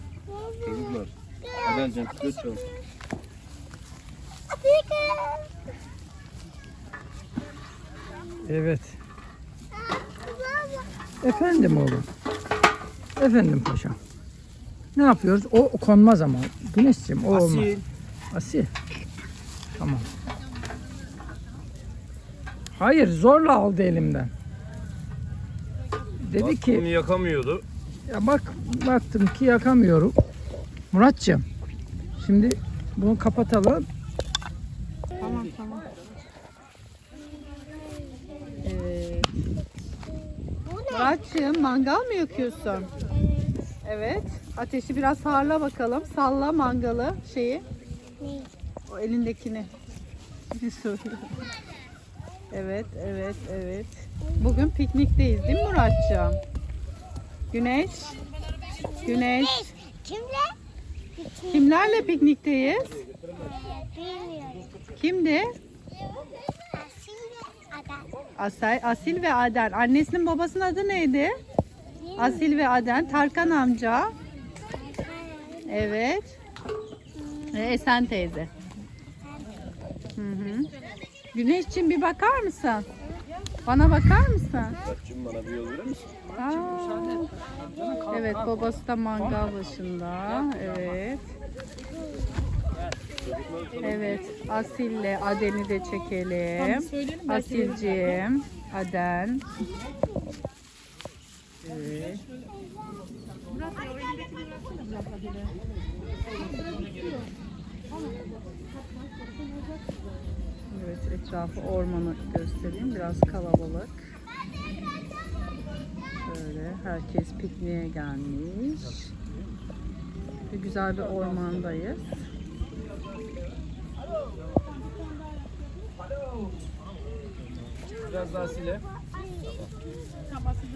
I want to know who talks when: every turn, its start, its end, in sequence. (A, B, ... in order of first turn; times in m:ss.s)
0:00.3-0:02.9 A
0:00.6-0:01.1 B
0:01.6-0:02.6 B
0:04.5-0:05.6 A
0:08.4-0:09.0 C
0:09.9-0:11.6 A
0:11.2-0:12.1 C
0:13.2-0:14.0 C
0:15.0-0:17.7 C
0:17.3-0:17.8 B
0:18.3-0:18.7 C
0:19.8-0:20.1 C
0:22.8-0:24.3 C
0:26.2-0:26.9 C
0:26.4-0:27.6 B
0:28.1-0:30.1 C
0:30.9-0:31.4 C
0:32.2-0:33.9 C
0:35.2-0:35.9 D
0:38.6-0:39.3 D
0:40.7-0:41.2 A
0:40.9-0:42.9 D
0:43.2-0:43.5 A
0:43.8-0:47.6 D
0:48.2-0:48.5 A
0:48.9-0:49.7 D
0:50.5-0:51.3 D
0:52.5-0:56.4 D
0:57.5-0:58.2 D
0:58.8-1:00.6 A
0:59.0-0:59.7 D
1:01.2-1:02.1 A
1:01.5-1:03.0 D
1:03.3-1:04.8 A
1:05.0-1:05.5 D
1:06.1-1:08.1 A
1:08.4-1:11.4 D
1:12.0-1:12.5 A
1:12.2-1:14.2 D
1:14.7-1:15.8 A
1:15.7-1:16.4 D
1:17.5-1:18.5 D
1:20.2-1:20.7 D
1:21.3-1:22.9 D
1:23.6-1:24.8 D
1:24.9-1:26.2 B
1:26.4-1:27.3 D
1:28.0-1:31.3 D
1:33.8-1:39.5 D
1:41.6-1:42.3 D
1:50.7-1:54.1 D
1:56.2-1:59.1 D
2:00.5-2:02.2 D
2:08.1-2:08.8 B